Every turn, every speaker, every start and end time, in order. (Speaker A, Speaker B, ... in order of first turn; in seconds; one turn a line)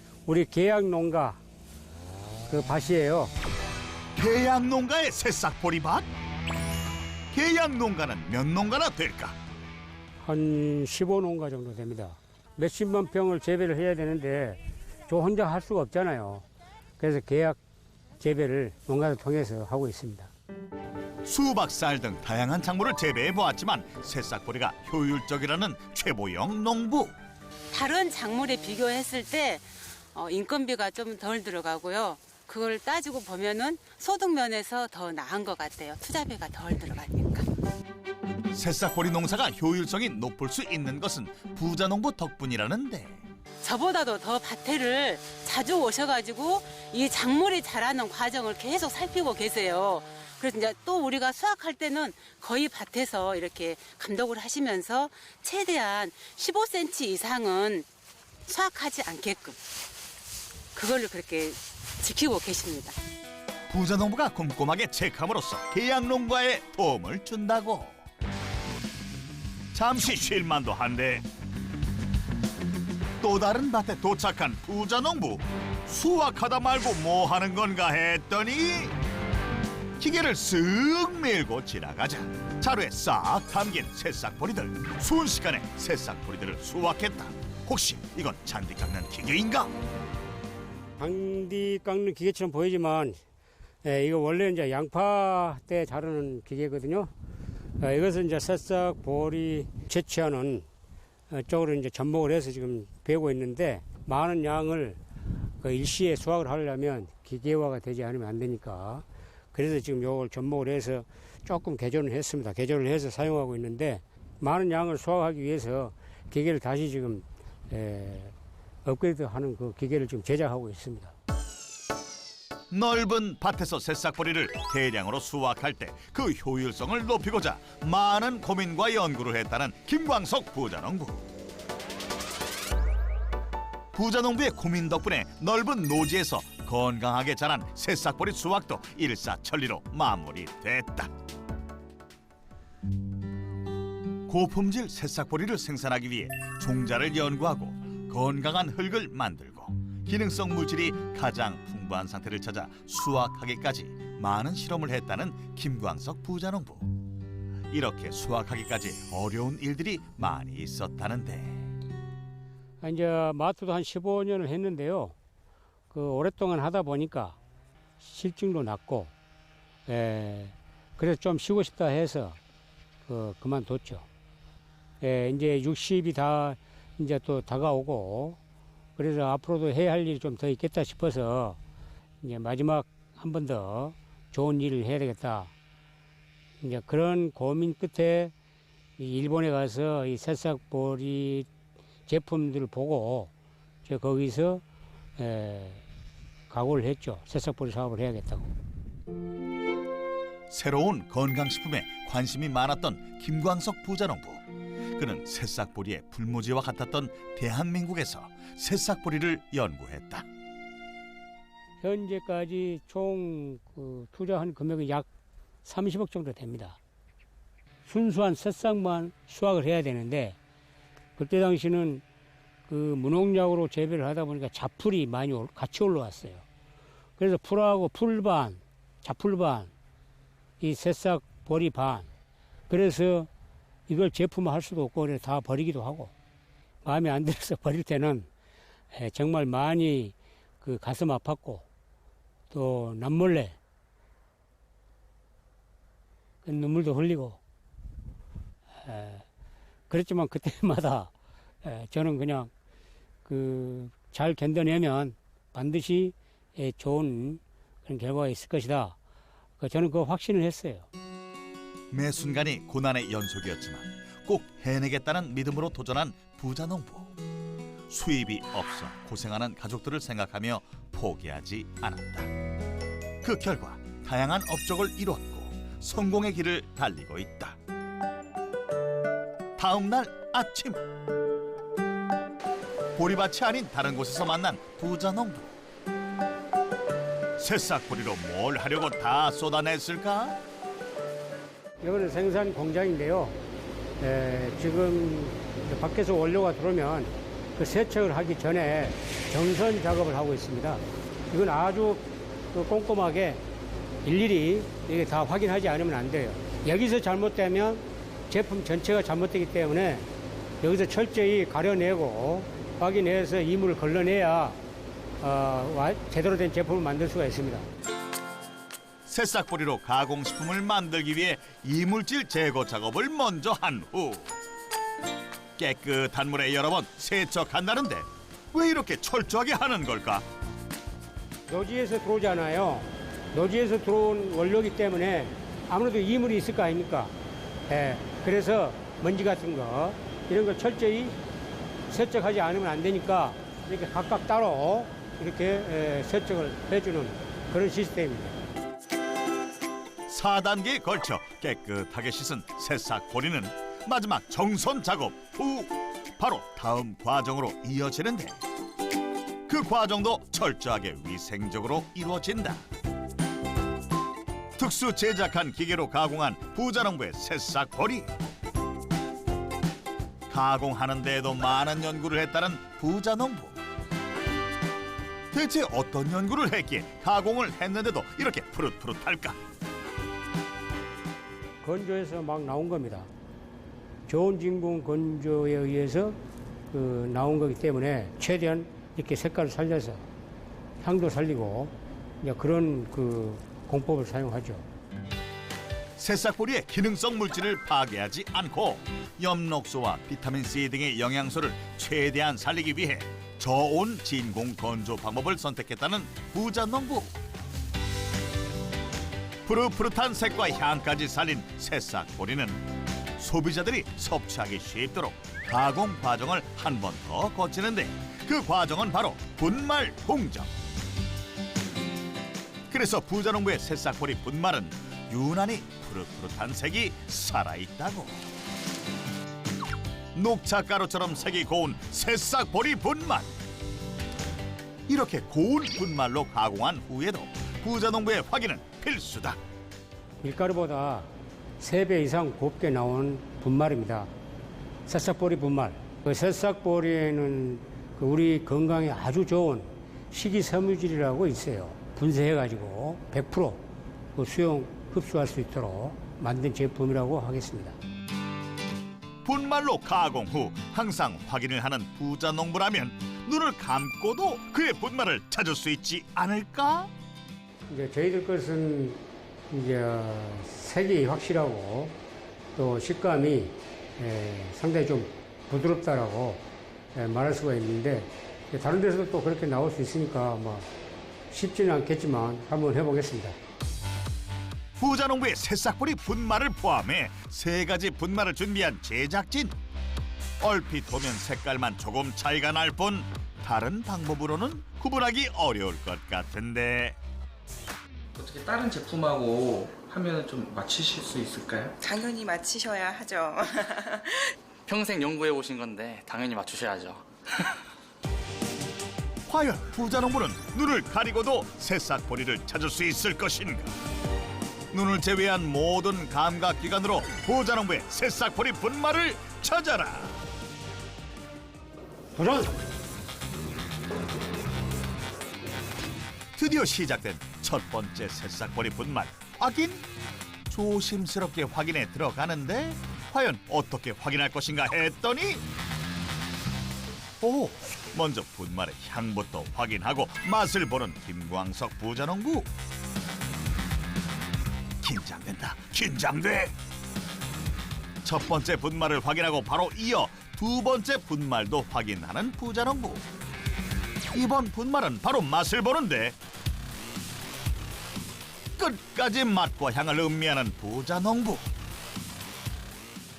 Speaker A: 0.3-1.4
Speaker A: 2.5-3.3
Speaker B: 4.2-6.1
Speaker B: 7.3-9.4
Speaker A: 10.2-16.5
Speaker A: 17.0-17.6
Speaker A: 18.2-20.3
Speaker B: 21.3-27.1
Speaker C: 27.7-37.5
Speaker B: 38.5-43.2
Speaker C: 43.6-57.9
Speaker C: 58.5-59.6
Speaker C: 60.8-63.0
Speaker B: 63.7-68.0
Speaker B: 69.7-71.2
Speaker B: 73.2-78.9
Speaker B: 80.0-89.7
Speaker A: 91.0-93.2
Speaker A: 93.8-97.1
Speaker A: 97.8-100.7
Speaker A: 101.3-105.0
Speaker A: 105.6-121.1
Speaker B: 122.7-131.3
Speaker B: 133.9-141.1
Speaker B: 144.3-156.9
Speaker B: 157.7-161.7
Speaker A: 162.8-165.2
Speaker A: 165.9-167.4
Speaker A: 168.0-169.1
Speaker A: 169.9-172.4
Speaker A: 173.0-174.1
Speaker A: 175.0-178.4
Speaker A: 179.0-181.6
Speaker A: 182.2-185.5
Speaker A: 186.6-188.3
Speaker A: 189.0-191.5
Speaker A: 192.1-193.3
Speaker A: 193.8-194.6
Speaker A: 195.2-195.8
Speaker A: 196.5-198.6
Speaker B: 200.5-204.4
Speaker B: 205.0-210.3
Speaker A: 211.8-215.1
Speaker A: 215.7-216.8
Speaker A: 217.8-220.4
Speaker A: 221.2-222.0
Speaker A: 222.7-226.4
Speaker A: 227.2-229.7
Speaker A: 230.6-232.1
Speaker A: 232.7-233.3
Speaker A: 233.9-236.1
Speaker A: 236.8-238.3
Speaker A: 238.9-241.7
Speaker A: 242.5-243.6
Speaker A: 246.4-247.4
Speaker A: 248.8-249.3
Speaker A: 249.9-251.1
Speaker A: 251.6-252.5
Speaker A: 253.2-259.0
Speaker A: 259.6-260.9
Speaker B: 261.9-267.1
Speaker B: 267.9-272.3
Speaker B: 273.2-277.6
Speaker B: 279.6-280.8
Speaker B: 283.0-285.6
Speaker B: 287.4-290.4
Speaker A: 291.8-293.4
Speaker A: 294.0-303.4
Speaker A: 304.0-310.1
Speaker A: 310.6-314.6
Speaker A: 315.2-317.7
Speaker B: 319.1-324.3
Speaker B: 325.6-330.3
Speaker A: 331.5-337.1
Speaker A: 337.7-341.2
Speaker A: 341.9-348.4
Speaker B: 350.1-358.4
Speaker B: 359.5-362.6
Speaker B: 364.6-368.1
Speaker B: 370.3-373.6
Speaker B: 375.3-379.4
Speaker A: 381.6-383.1
Speaker A: 384.1-386.2
Speaker A: 386.7-390.1
Speaker A: 390.8-394.7
Speaker B: 396.0-407.1
Speaker B: 409.5-412.6
Speaker B: 413.2-420.5
Speaker B: 422.7-428.2
Speaker B: 430.1-433.3
Speaker B: 434.9-439.4
Speaker A: 440.2-444.1
Speaker A: 444.9-457.8
Speaker B: 459.2-466.9
Speaker A: 467.7-472.0
Speaker A: 472.6-480.7
Speaker A: 481.3-483.4
Speaker B: 484.8-489.5
Speaker B: 490.4-497.0
Speaker D: 498.1-501.8
Speaker E: 501.8-504.3
Speaker F: 504.7-507.5
Speaker B: 509.3-513.7
Speaker B: 514.7-520.2
Speaker A: 522.1-522.6
Speaker B: 526.4-529.8
Speaker B: 530.5-535.4
Speaker B: 537.2-542.5
Speaker B: 544.8-546.5
Speaker B: 548.0-553.0
Speaker B: 554.1-556.2
Speaker B: 558.6-561.5